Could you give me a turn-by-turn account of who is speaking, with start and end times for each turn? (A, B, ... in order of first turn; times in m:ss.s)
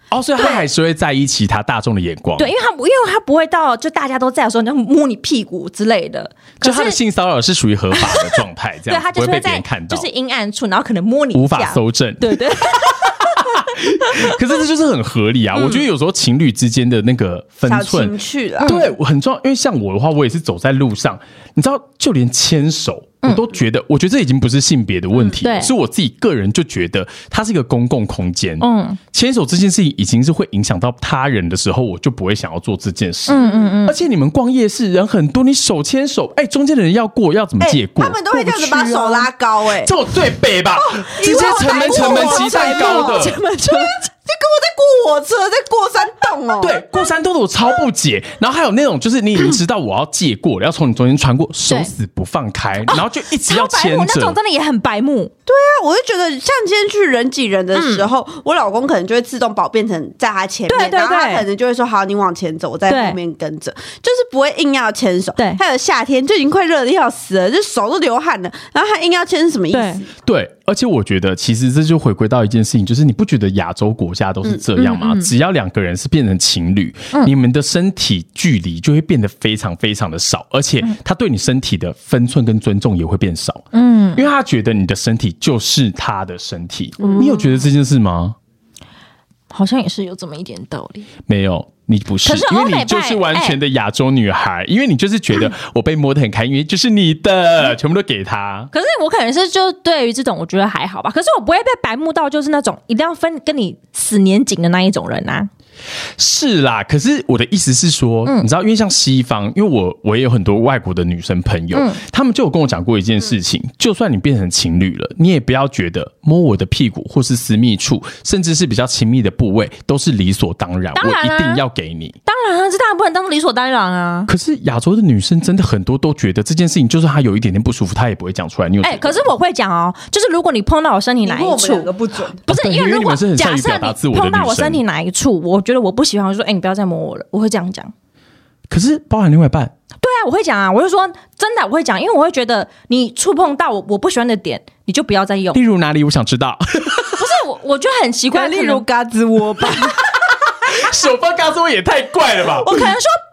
0:00.1-0:02.5 A
0:00.4-0:00.6 B
0:02.4-0:07.0 B
0:06.6-0:10.1 A
0:07.9-0:14.2 B
0:11.3-0:43.4 A
0:15.5-0:15.8 B
0:17.6-0:18.8 C
0:18.6-0:18.9 B
0:25.2-0:25.7 B
0:28.6-0:29.0 B
0:33.3-0:34.0 B
0:33.4-0:33.7 C
0:37.6-0:39.9 C
0:40.8-0:46.8 C
0:41.3-0:44.0 B
0:46.6-0:54.4 A
0:52.8-0:55.3 B
0:55.4-1:10.1 C
0:57.7-0:58.1 B
1:00.7-1:01.4 B
1:02.9-1:03.2 B
1:09.7-1:10.0 B
1:10.2-1:28.4 A
1:14.8-1:15.3 B
1:23.7-1:24.2 B
1:27.0-1:27.5 B
1:29.5-1:31.1 B
1:31.3-1:38.7 A
1:32.2-1:33.6 B
1:38.7-1:45.5 B
1:46.2-2:02.2 A
1:51.7-1:52.0 B
2:01.0-2:01.6 B
2:02.2-2:04.3 B
2:04.3-2:09.3 A
2:08.8-2:11.9 B
2:11.2-2:12.4 C
2:12.4-2:17.9 B
2:12.5-2:14.8 A
2:18.7-2:19.7 A
2:20.0-2:25.6 B
2:25.5-2:27.3 A
2:27.1-2:28.8 B
2:28.3-2:30.0 C
2:30.1-2:32.9 A
2:32.4-2:33.1 B